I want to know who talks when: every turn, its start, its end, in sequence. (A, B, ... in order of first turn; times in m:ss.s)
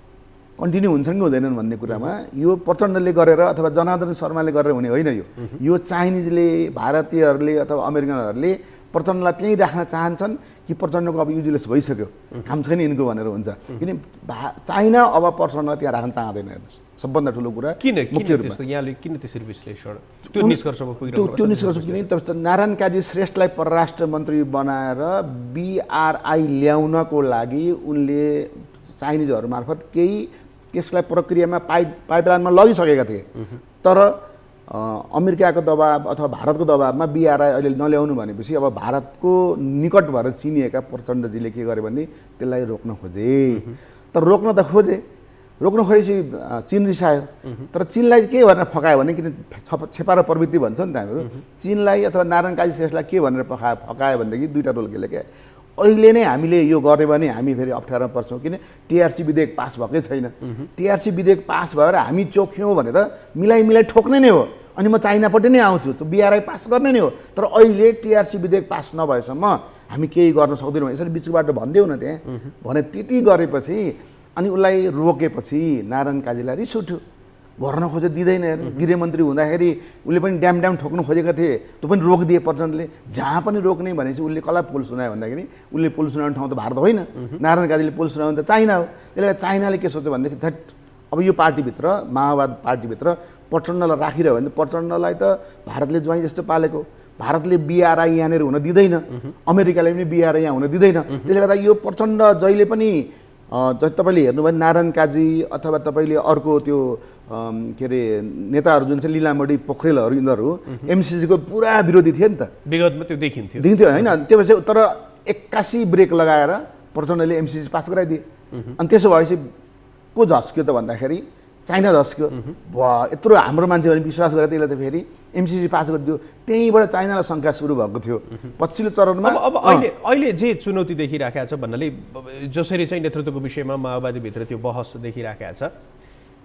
0:00.6-0:18.6 A
0:17.8-0:22.0 B
0:20.3-0:33.3 A
0:33.8-0:45.0 A
0:45.6-0:55.2 A
0:55.8-1:17.0 A
1:17.6-1:52.5 A
1:52.6-1:53.8 B
1:53.6-1:58.2 A
1:58.8-1:59.4 A
2:00.1-2:09.9 A
2:09.2-2:15.7 B